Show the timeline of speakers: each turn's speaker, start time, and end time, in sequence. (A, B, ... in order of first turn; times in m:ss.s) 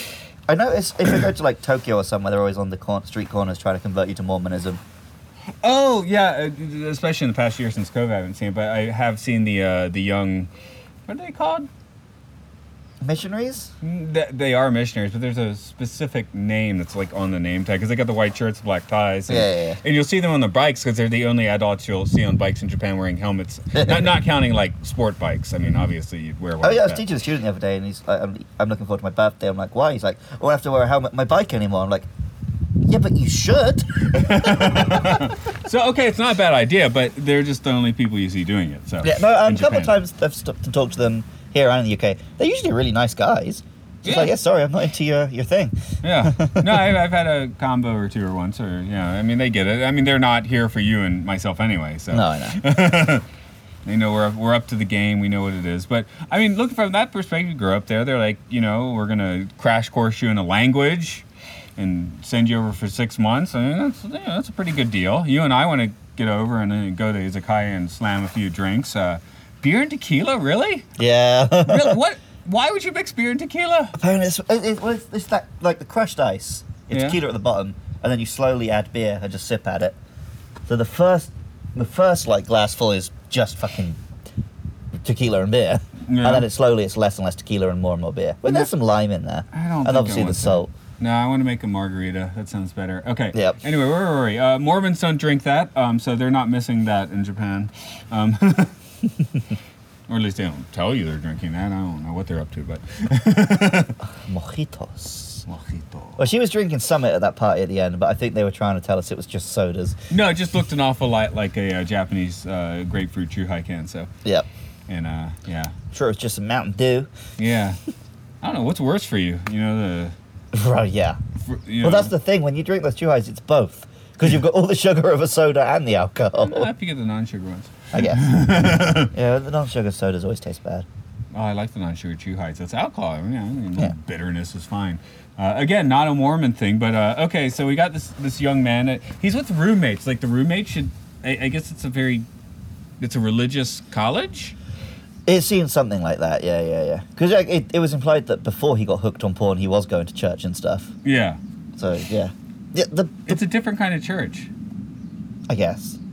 0:00.5-0:04.8 A
0:05.6-0:10.5 B
0:11.1-0:11.7 B
0:13.0-0:13.7 A
0:13.8-0:27.0 B
0:19.3-0:19.8 A
0:23.7-0:24.1 A
0:26.6-0:32.1 A
0:32.9-0:35.1 A
0:34.1-0:39.9 B
0:39.0-0:47.0 A
0:44.0-0:44.4 B
0:46.0-0:53.2 B
0:52.1-0:52.6 A
0:53.8-1:01.2 B
1:01.8-1:10.8 B
1:11.0-1:12.0 A
1:11.6-1:14.0 B
1:14.0-1:20.0 A
1:16.9-1:17.2 B
1:20.7-1:24.0 A
1:25.0-1:30.7 A
1:26.1-1:26.5 B
1:28.4-1:28.7 B
1:29.5-1:38.7 B
1:40.1-1:44.0 B
1:44.2-1:45.4 A
1:45.5-1:46.3 B
1:46.2-1:50.0 A
1:50.1-1:54.1 B
1:54.9-1:55.7 B
1:55.9-1:57.1 A
1:57.4-1:57.8 B
1:58.4-2:00.2 B
2:00.5-2:01.2 A
2:01.4-2:02.1 B
2:01.8-2:06.7 A
2:06.4-2:09.1 B
2:07.9-2:10.9 A
2:11.3-2:22.3 B
2:23.0-2:24.6 B
2:25.3-2:30.9 A
2:31.0-2:31.4 B
2:31.8-2:33.4 A
2:33.3-2:34.5 B
2:35.5-2:36.0 A